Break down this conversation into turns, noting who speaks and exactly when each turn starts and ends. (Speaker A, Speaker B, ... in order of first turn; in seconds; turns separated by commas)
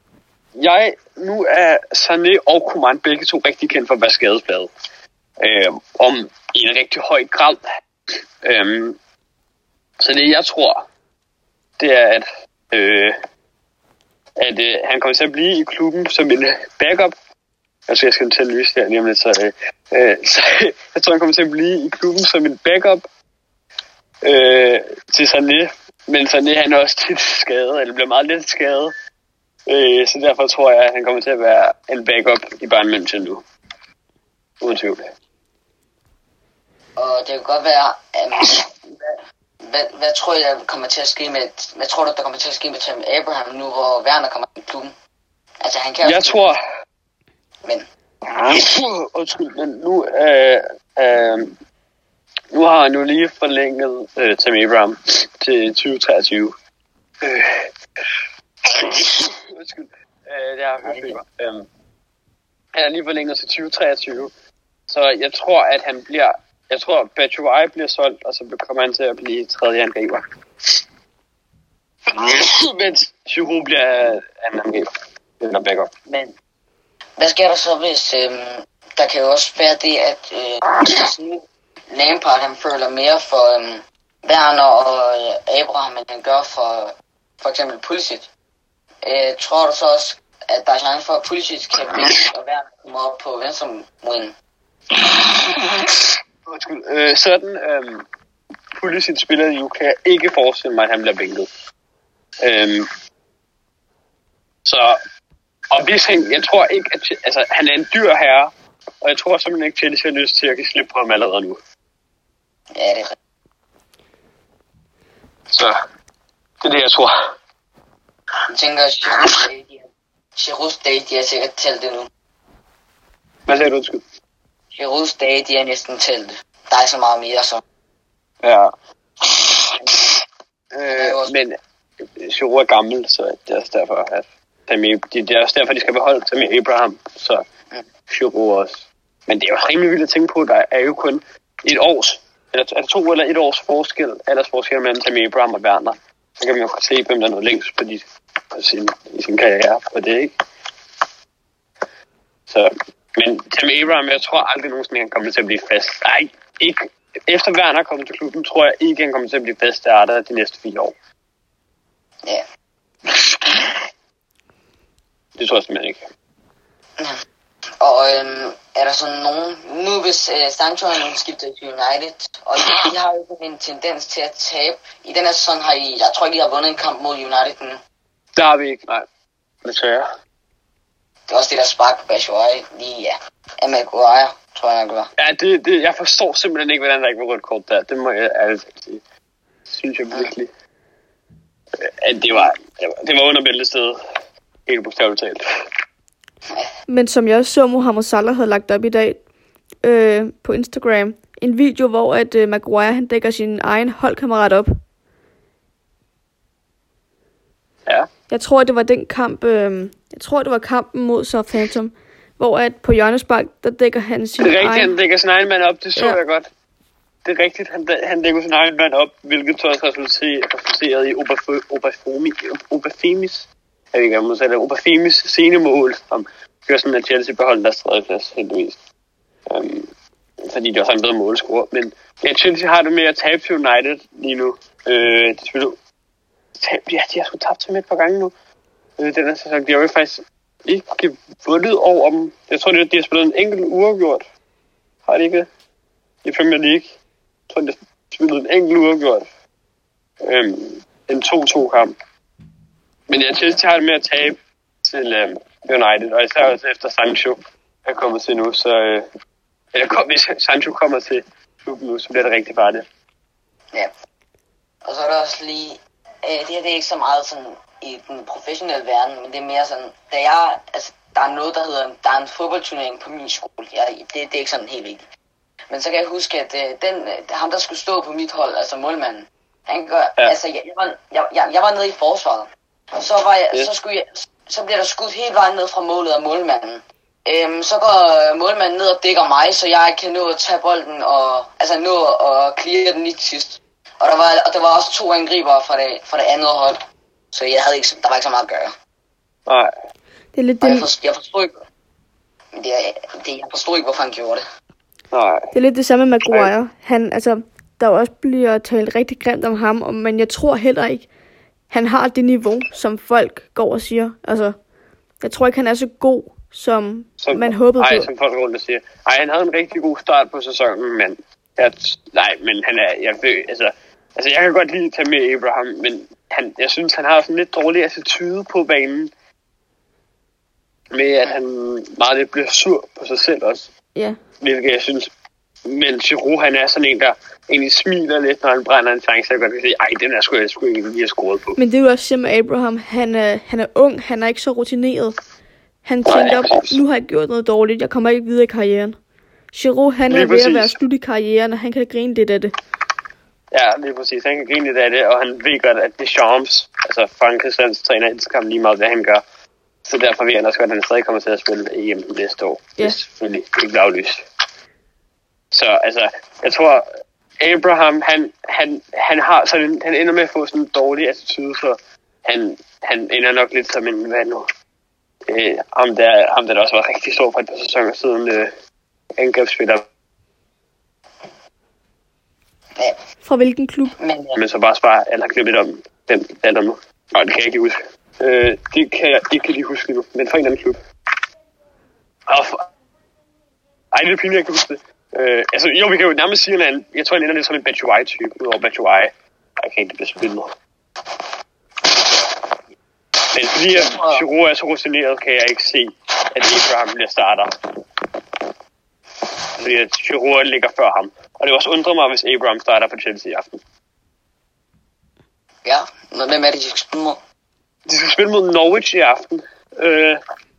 Speaker A: 0.6-4.7, Speaker A: 5.4-7.6, Speaker A: 8.1-9.0, Speaker A: 10.0-10.8, Speaker A: 11.8-13.2, Speaker A: 14.4-17.1, Speaker A: 17.9-23.1, Speaker A: 24.2-28.9, Speaker A: 29.7-33.4, Speaker A: 34.6-35.0, Speaker B: 37.0-38.6, Speaker B: 39.6-44.9, Speaker B: 45.6-46.5, Speaker A: 46.0-46.6, Speaker A: 48.3-51.6, Speaker A: 52.5-56.5, Speaker A: 57.2-61.7, Speaker B: 60.8-61.2, Speaker A: 62.7-64.3, Speaker A: 64.9-70.8, Speaker A: 72.1-74.9, Speaker A: 75.4-75.9, Speaker B: 76.1-76.3, Speaker B: 77.2-88.3, Speaker B: 89.0-94.3, Speaker A: 96.5-98.0, Speaker A: 98.7-101.5, Speaker A: 102.4-102.9, Speaker A: 104.6-105.0, Speaker A: 105.7-111.6, Speaker B: 112.7-113.1, Speaker A: 116.6-117.1, Speaker B: 118.5-122.1, Speaker A: 123.5-124.0, Speaker B: 124.7-127.6, Speaker A: 128.4-130.2, Speaker A: 130.7-137.4, Speaker B: 130.9-131.3, Speaker A: 138.1-150.3, Speaker A: 152.5-160.9, Speaker A: 163.1-163.8, Speaker A: 165.4-166.0, Speaker B: 167.8-177.8, Speaker A: 178.4-179.1, Speaker A: 179.6-180.1, Speaker B: 181.3-185.1, Speaker A: 185.2-189.0, Speaker A: 189.7-190.5, Speaker A: 191.8-194.0, Speaker A: 194.7-195.4, Speaker C: 196.9-199.2, Speaker C: 199.8-204.7, Speaker C: 208.3-214.9, Speaker A: 214.4-216.5, Speaker A: 217.2-228.8, Speaker A: 229.5-229.9, Speaker A: 230.4-235.8, Speaker A: 236.6-238.3, Speaker A: 239.0-244.2, Speaker A: 245.1-245.5, Speaker A: 246.2-246.9, Speaker A: 247.5-249.3, Speaker A: 250.2-251.9, Speaker A: 253.1-259.1, Speaker A: 259.7-262.8, Speaker B: 264.8-275.0, Speaker B: 275.7-296.8, Speaker B: 297.3-298.7, Speaker C: 300.3-300.9, Speaker B: 300.6-301.5, Speaker B: 302.6-304.4, Speaker A: 305.1-305.5, Speaker C: 305.5-311.1, Speaker C: 311.7-314.6, Speaker C: 315.2-318.1, Speaker A: 317.2-329.1, Speaker A: 330.9-333.7, Speaker A: 334.4-335.1, Speaker A: 335.6-341.6, Speaker C: 341.6-345.1, Speaker C: 345.8-348.9, Speaker A: 346.1-346.8, Speaker C: 349.5-352.5, Speaker A: 350.1-350.8, Speaker A: 353.5-359.2, Speaker A: 359.8-364.2, Speaker A: 365.5-366.9, Speaker A: 367.4-374.5, Speaker A: 375.3-378.5, Speaker A: 379.2-379.9, Speaker C: 383.2-383.9, Speaker B: 384.0-384.4, Speaker A: 384.4-390.8, Speaker A: 392.3-392.6, Speaker A: 393.9-400.5, Speaker A: 403.3-407.6, Speaker B: 403.6-404.2, Speaker A: 409.6-413.6, Speaker B: 415.6-417.2, Speaker A: 417.9-420.2